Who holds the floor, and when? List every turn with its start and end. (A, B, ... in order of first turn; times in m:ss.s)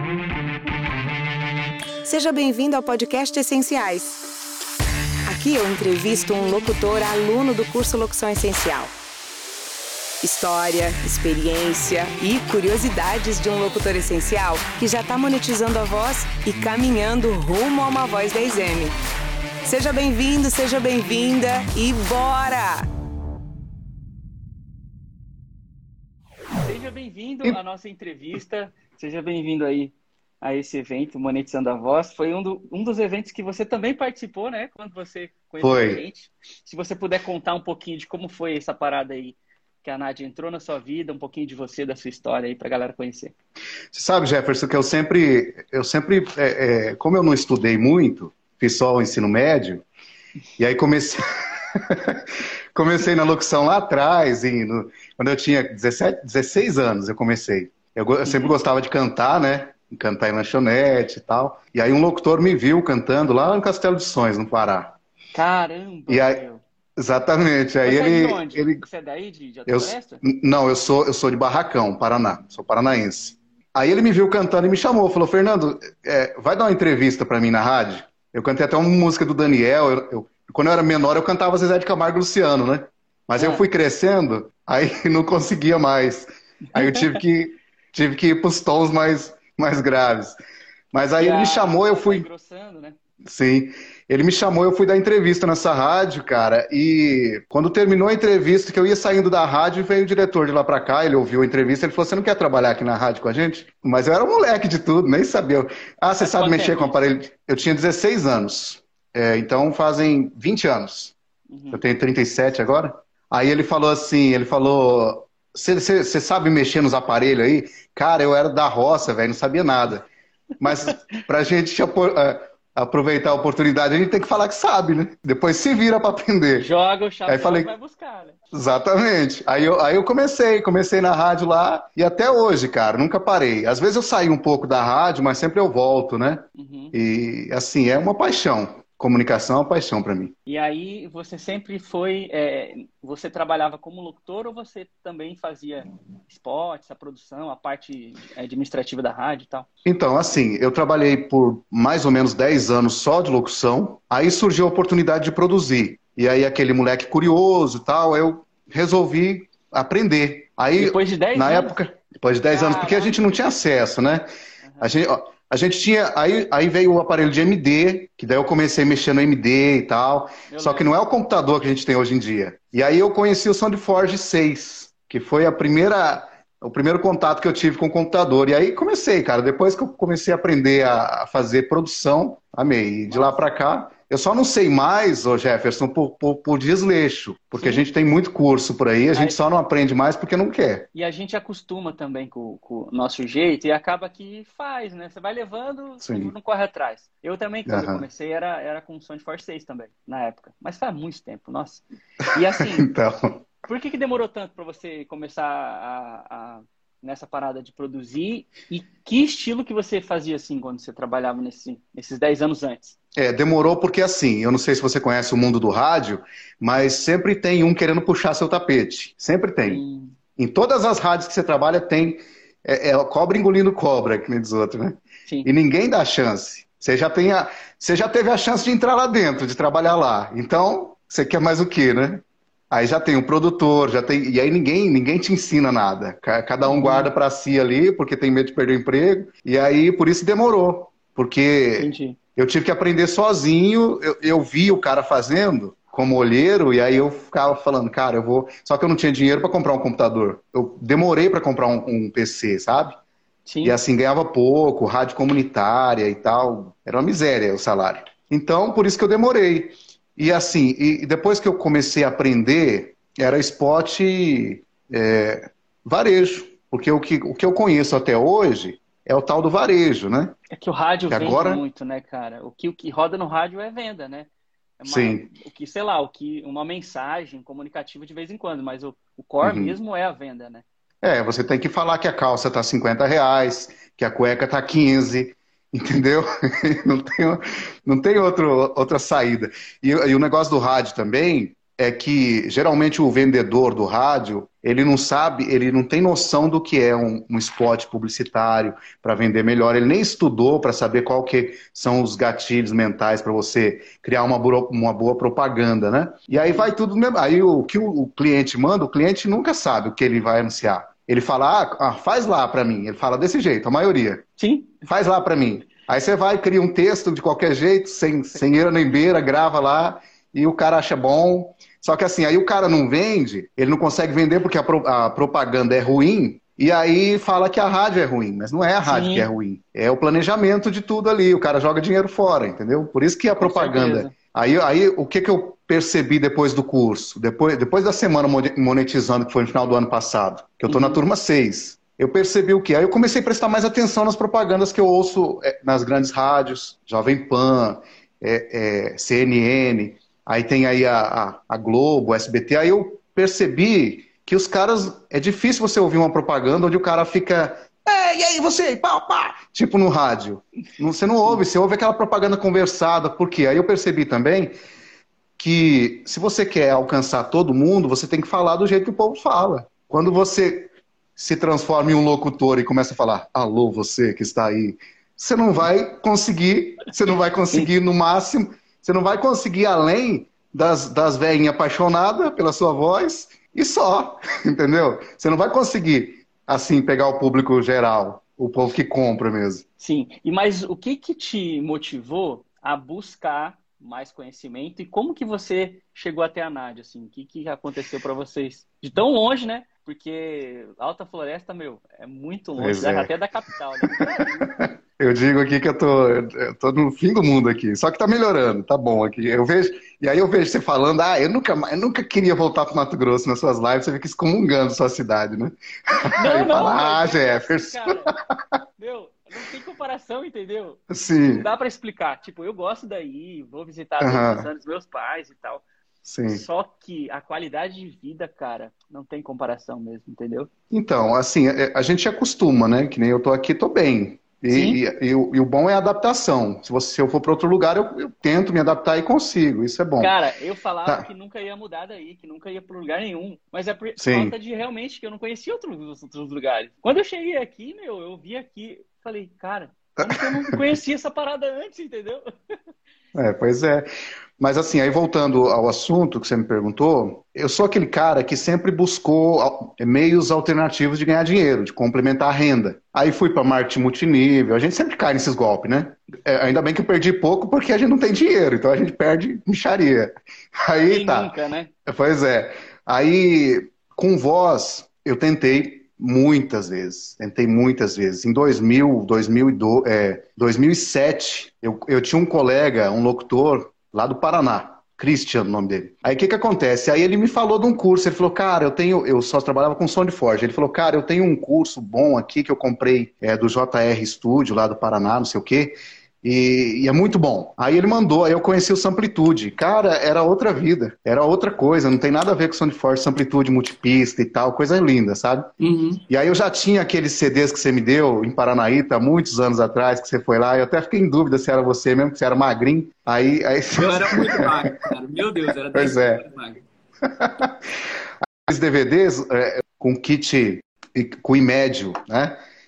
0:02.0-0:04.2 A
0:05.3-0:08.9 A
0:10.2-0:19.0 A
0:19.6-0:22.9 A
0:26.6-0:43.3 B
0:35.6-0:36.0 C
0:43.9-0:49.8 C
0:50.6-0:51.2 C
0:51.8-0:52.2 C
0:52.8-1:05.0 C
0:58.3-0:58.6 B
1:05.3-1:06.6 B
1:06.1-1:06.4 C
1:07.0-1:08.8 C
1:07.8-1:10.2 B
1:09.7-1:30.4 C
1:23.4-1:23.6 B
1:26.8-1:27.2 B
1:30.9-1:32.3 C
1:31.2-1:33.0 B
1:33.2-1:51.1 C
1:46.2-1:47.0 B
1:51.5-1:51.8 B
1:51.7-2:00.1 C
2:00.6-2:06.7 C
2:06.6-2:08.4 B
2:07.3-2:07.7 C
2:08.5-2:20.3 C
2:16.6-2:17.0 B
2:20.5-2:29.7 B
2:29.8-2:44.3 C
2:40.8-2:41.8 B
2:42.5-2:43.3 B
2:44.6-2:44.9 B
2:44.8-3:10.9 C
2:50.5-2:50.9 B
3:03.1-3:03.5 B
3:07.6-3:07.9 B
3:11.0-3:22.9 B
3:16.0-3:16.3 C
3:17.7-3:18.0 C
3:22.7-3:23.4 C
3:23.6-3:33.0 B
3:33.2-3:39.8 C
3:39.6-3:40.2 B
3:40.4-4:13.0 C
3:56.6-3:57.1 B
4:01.8-4:02.2 B
4:13.5-4:13.8 B
4:13.6-4:30.4 C
4:30.5-4:34.3 B
4:31.1-4:31.6 C
4:34.8-4:40.6 B
4:34.8-4:35.2 C
4:39.4-4:39.8 C
4:41.0-5:14.2 C
5:06.4-5:06.7 B
5:14.4-5:14.7 B
5:14.9-6:04.5 C
5:28.9-5:29.3 B
5:33.4-5:34.1 B
5:40.7-5:41.0 B
6:05.4-6:29.6 C
6:29.8-6:44.5 B
6:42.6-6:43.1 C
6:43.8-6:58.2 C
6:56.2-6:58.1 B
6:58.8-7:05.6 B
7:00.9-7:01.5 C
7:04.0-7:04.5 C
7:06.0-7:06.4 C
7:06.3-7:10.5 B
7:10.7-7:20.1 C
7:14.5-7:14.8 B
7:20.0-7:32.3 B
7:24.0-7:24.4 C
7:33.2-7:33.9 C
7:34.4-7:51.3 C
7:50.9-7:51.7 B
7:51.9-8:25.5 C
8:25.6-8:26.0 B
8:26.1-8:34.9 C
8:33.7-8:36.6 B
8:35.7-8:36.2 C
8:37.1-8:37.5 C
8:38.5-8:42.4 C